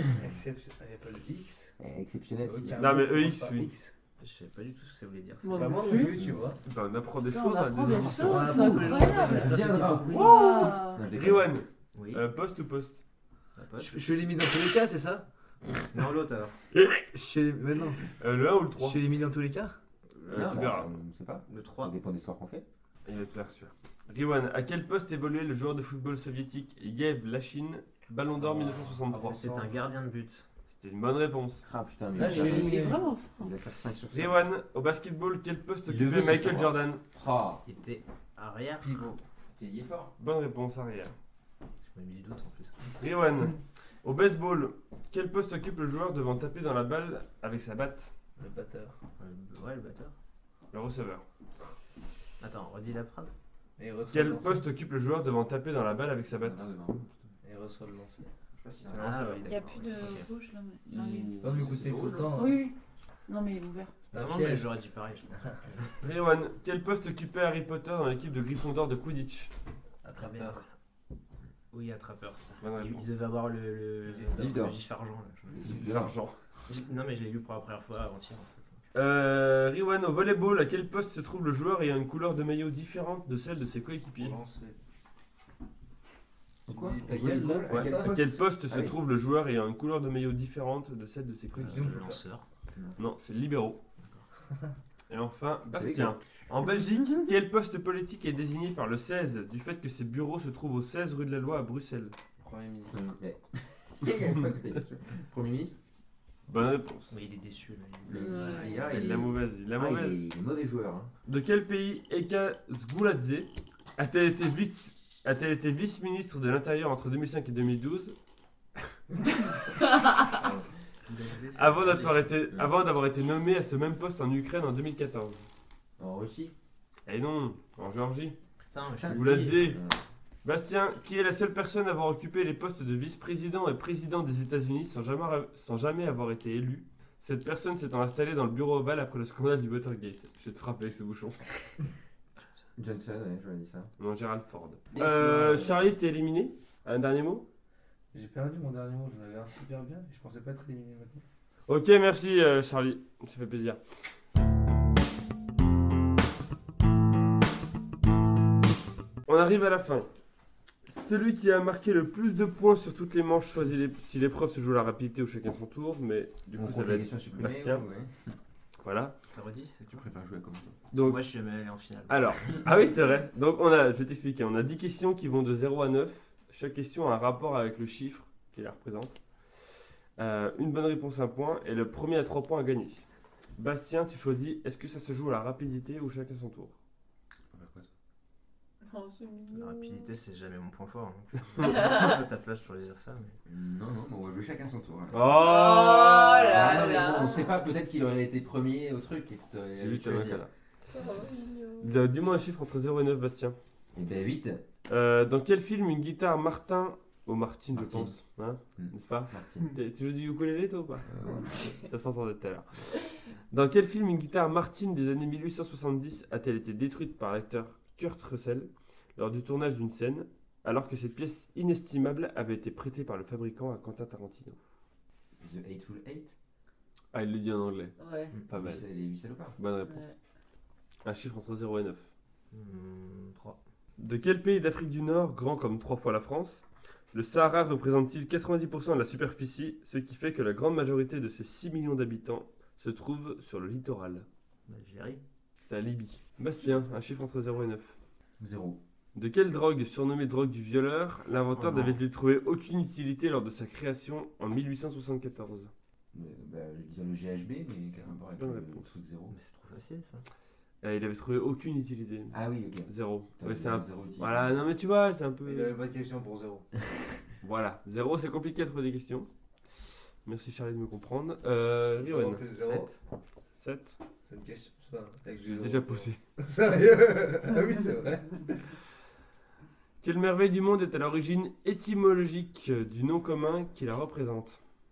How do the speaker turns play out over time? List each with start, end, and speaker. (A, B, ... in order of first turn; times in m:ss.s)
0:00.1-0:01.8 A
0:01.8-0:02.8 B
0:02.4-0:03.9 A
0:02.8-0:03.7 C
0:04.2-0:05.9 D
0:05.4-0:06.2 E
0:05.5-0:06.6 A
0:06.6-0:09.0 C
0:07.3-0:09.6 E
0:07.9-0:10.4 A
0:09.2-0:11.5 B
0:10.1-0:13.0 C
0:10.1-0:11.0 E
0:11.9-0:12.2 D
0:13.6-0:13.9 D
0:13.8-0:15.3 A
0:15.9-0:16.6 D
0:16.7-0:17.1 C
0:17.1-0:18.0 A
0:18.1-0:19.0 C
0:18.8-0:19.8 A
0:20.2-0:20.9 C
0:20.3-0:22.6 B
0:21.5-0:22.0 D
0:23.0-0:29.5 C
0:28.4-0:28.8 D
0:29.1-0:29.8 A
0:29.3-0:30.5 D
0:30.7-0:31.6 C
0:31.6-0:34.5 B
0:32.2-0:33.0 A
0:32.2-0:33.5 E
0:34.1-0:37.0 C
0:35.9-0:37.6 B
0:37.6-0:39.0 D
0:38.8-0:39.2 A
0:39.5-0:40.1 B
0:40.2-0:41.1 C
0:41.8-0:43.0 D
0:43.0-0:48.1 C
0:48.4-0:49.0 A
0:49.2-0:50.2 D
0:50.7-0:51.2 C
0:52.4-0:53.3 D
0:53.8-0:54.6 A
0:54.1-0:56.6 C
0:56.3-0:57.2 B
0:57.4-0:58.3 A
0:58.6-0:59.3 B
0:58.9-1:00.3 D
0:58.9-0:59.5 C
0:59.4-1:01.4 E
1:01.0-1:02.4 B
1:01.4-1:02.7 A
1:02.3-1:02.8 E
1:03.3-1:04.0 E
1:04.1-1:04.7 A
1:04.1-1:06.0 D
1:05.4-1:05.7 A
1:06.0-1:09.5 C
1:10.0-1:10.6 A
1:10.2-1:10.7 D
1:11.7-1:15.7 D
1:12.6-1:13.2 C
1:14.1-1:14.5 A
1:14.4-1:14.8 B
1:15.5-1:16.2 B
1:15.6-1:16.4 C
1:16.7-1:18.8 D
1:18.9-1:24.4 C
1:24.2-1:24.8 A
1:26.7-1:29.0 B
1:26.7-1:28.3 A
1:27.7-1:32.0 C
1:31.6-1:32.2 A
1:31.6-1:32.5 D
1:32.7-1:33.0 B
1:33.0-1:33.8 C
1:35.1-1:42.1 C
1:35.7-1:36.2 B
1:42.4-1:43.0 A
1:42.9-1:45.8 B
1:46.5-1:47.2 C
1:47.1-1:49.0 D
1:48.1-1:51.1 B
1:48.1-1:48.8 E
1:48.9-1:50.2 C
1:51.3-1:58.2 C
2:00.4-2:00.6 B
2:01.1-2:02.7 D
2:01.6-2:05.4 C
2:06.0-2:06.5 B
2:07.1-2:08.4 C
2:08.6-2:09.7 D
2:09.0-2:10.0 B
2:09.0-2:09.8 C
2:10.4-2:21.5 C
2:22.8-2:23.9 B
2:24.0-2:27.5 C
2:24.9-2:25.9 B
2:28.1-2:31.2 A
2:31.7-2:33.8 C
2:39.3-2:40.1 C
2:40.9-2:47.8 C
2:46.6-2:48.4 B
2:48.8-2:49.1 C
2:49.3-2:50.1 D
2:49.9-2:50.7 B
2:50.9-2:51.2 C
2:51.0-2:52.7 D
2:52.1-3:03.1 C
3:03.6-3:06.7 C
3:07.5-3:07.9 B
3:08.8-3:10.1 E
3:09.5-3:13.4 D
3:11.6-3:12.1 E
3:13.5-3:15.3 B
3:15.1-3:17.0 C
3:15.4-3:17.5 E
3:16.4-3:20.5 B
3:19.8-3:20.5 C
3:20.9-3:21.9 E
3:21.8-3:23.6 C
3:23.9-3:24.6 B
3:24.9-3:44.6 C
3:27.7-3:28.2 B
3:28.8-3:29.7 B
3:31.1-3:31.6 B
3:45.4-3:46.3 B
3:47.1-3:48.0 C
3:48.0-3:48.4 E
3:48.5-3:49.6 B
3:48.6-3:48.8 C
3:49.6-3:50.1 C
3:49.9-3:50.1 E
3:51.0-3:52.0 C
3:52.5-3:53.6 D
3:54.0-4:04.3 C
4:04.7-4:05.2 D
4:05.7-4:08.0 C
4:08.4-4:08.8 B
4:09.2-4:15.7 C
4:11.5-4:12.0 D
4:16.1-4:19.4 B
4:18.4-4:18.9 C
4:19.3-4:20.3 D
4:20.8-4:25.7 C
4:22.3-4:24.6 B
4:25.4-4:26.7 A
4:27.4-4:29.3 C
4:30.2-4:33.0 C
4:32.0-4:32.9 A
4:33.6-4:34.0 C
4:34.3-4:38.7 A
4:35.5-4:36.2 C
4:40.0-4:44.6 C